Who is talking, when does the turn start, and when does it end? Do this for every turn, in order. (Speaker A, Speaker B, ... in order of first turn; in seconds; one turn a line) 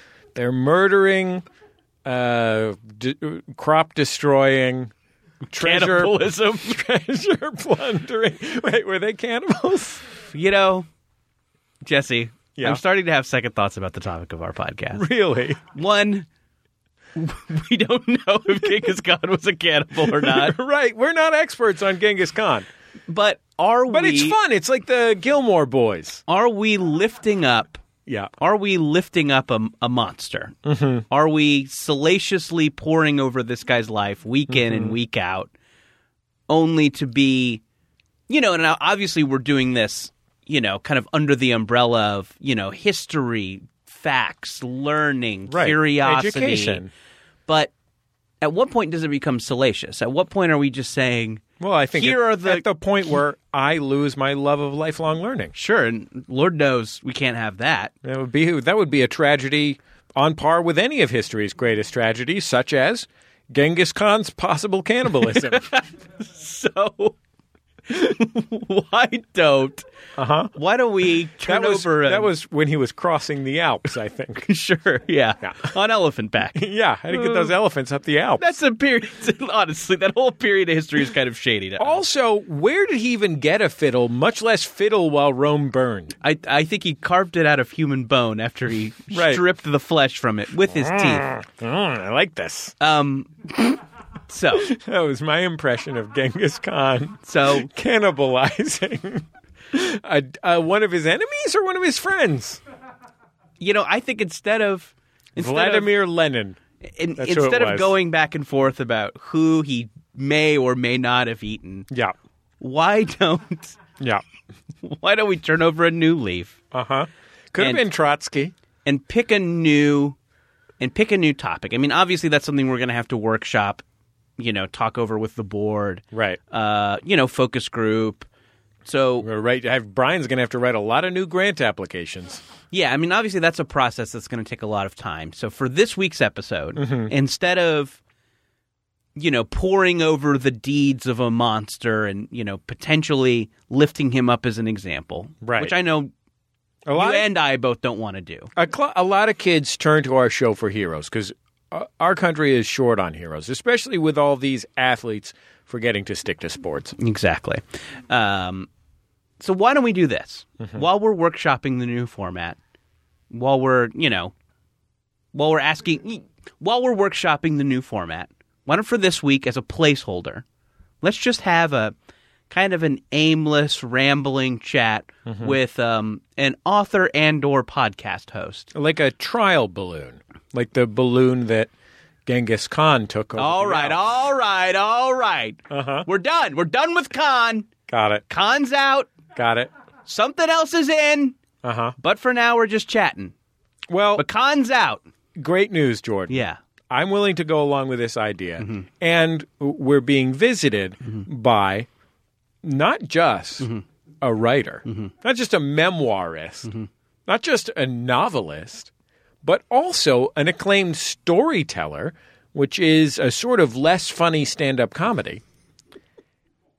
Speaker A: 0.3-1.4
Speaker A: 2.1-4.9
Speaker B: 5.5-6.8
Speaker A: 5.5-10.0
Speaker B: 10.3-10.9
Speaker B: 11.8-15.1
Speaker A: 12.6-12.8
Speaker A: 14.9-15.6
Speaker B: 15.7-16.3
Speaker B: 17.2-20.6
Speaker A: 20.1-22.7
Speaker B: 23.1-24.4
Speaker A: 23.9-26.2
Speaker B: 26.3-27.8
Speaker A: 28.1-28.3
Speaker B: 28.4-30.6
Speaker A: 30.7-31.1
Speaker B: 31.1-35.5
Speaker A: 34.5-35.0
Speaker B: 36.5-37.6
Speaker B: 38.3-46.8
Speaker A: 45.5-46.9
Speaker B: 47.5-47.7
Speaker B: 48.4-51.4
Speaker A: 51.6-55.5
Speaker B: 52.0-52.7
Speaker B: 55.5-57.9
Speaker A: 58.0-65.7
Speaker B: 65.3-67.2
Speaker B: 67.9-69.8
Speaker A: 70.2-70.5
Speaker B: 70.5-72.3
Speaker A: 71.5-74.5
Speaker B: 74.5-77.5
Speaker A: 76.5-78.4
Speaker B: 78.4-82.0
Speaker A: 81.8-86.2
Speaker B: 86.2-91.2
Speaker A: 89.1-89.4
Speaker A: 90.7-92.8
Speaker B: 92.8-93.8
Speaker B: 94.3-94.7
Speaker A: 94.7-102.6
Speaker B: 97.2-97.7
Speaker B: 103.6-105.9
Speaker A: 105.4-106.6
Speaker B: 106.9-111.9
Speaker A: 107.2-107.9
Speaker B: 112.6-113.8
Speaker B: 114.8-116.6
Speaker A: 116.7-118.5
Speaker B: 118.8-120.2
Speaker B: 120.8-123.8
Speaker B: 124.4-128.3
Speaker A: 126.1-126.4
Speaker B: 128.8-129.3
Speaker A: 129.2-132.4
Speaker B: 132.7-138.0
Speaker A: 136.8-137.1
Speaker B: 139.2-146.1
Speaker A: 145.4-145.8
Speaker A: 146.9-147.3
Speaker B: 146.9-148.5
Speaker A: 148.6-157.0
Speaker B: 157.0-158.7
Speaker B: 159.4-162.6
Speaker B: 163.3-164.3
Speaker B: 165.3-170.4
Speaker B: 171.0-171.9
Speaker B: 172.5-178.7
Speaker A: 175.3-175.6
Speaker A: 178.7-181.7
Speaker A: 182.3-184.1
Speaker B: 183.4-187.7
Speaker A: 185.7-186.1
Speaker A: 187.9-188.2
Speaker B: 188.3-189.1
Speaker A: 189.3-189.7
Speaker B: 190.1-191.4
Speaker A: 191.6-191.9
Speaker B: 192.0-193.3
Speaker A: 193.9-194.2
Speaker B: 194.2-195.0
Speaker A: 195.4-201.9
Speaker B: 196.3-196.6
Speaker B: 198.6-198.8
Speaker A: 202.6-203.7
Speaker A: 204.2-206.7
Speaker B: 204.9-205.1
Speaker A: 207.3-208.9
Speaker A: 209.4-215.4